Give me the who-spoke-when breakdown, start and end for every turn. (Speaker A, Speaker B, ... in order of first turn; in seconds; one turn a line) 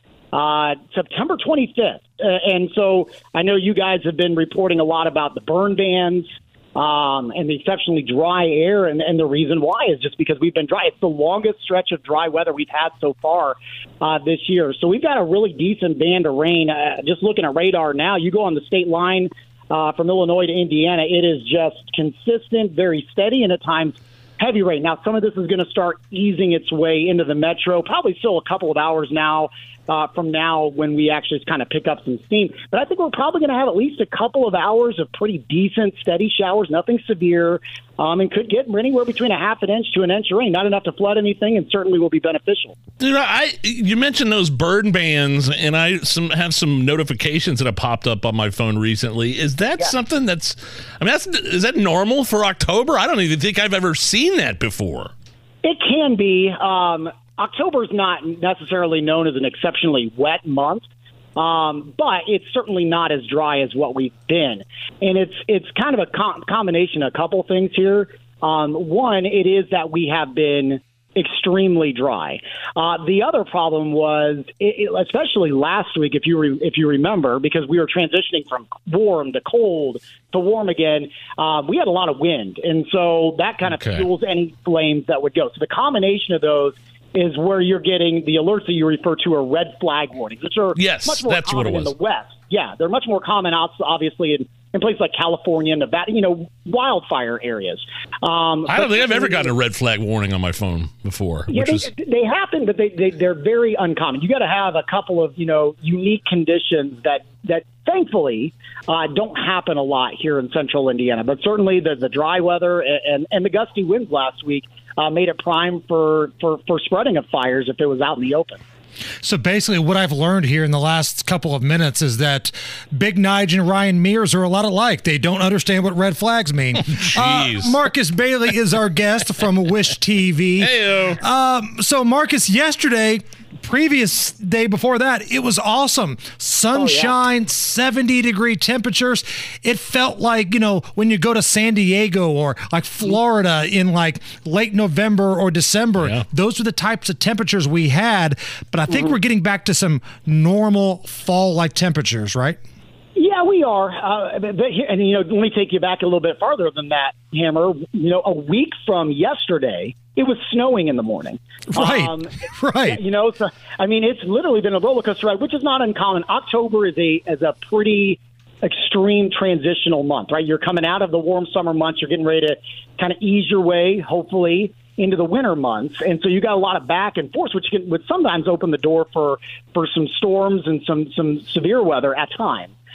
Speaker A: 0.3-42.8
Speaker B: 43.0-55.1
Speaker A: 55.6-60.9
Speaker A: 61.4-99.5
Speaker B: 83.6-84.1
Speaker B: 90.7-91.9
Speaker B: 98.7-101.9
Speaker A: 101.5-118.6
Speaker C: 119.2-152.6
Speaker B: 126.8-127.8
Speaker B: 130.6-131.2
Speaker A: 136.7-137.2
Speaker B: 146.0-146.2
Speaker A: 153.2-162.3
Speaker C: 161.8-163.0
Speaker A: 162.9-182.7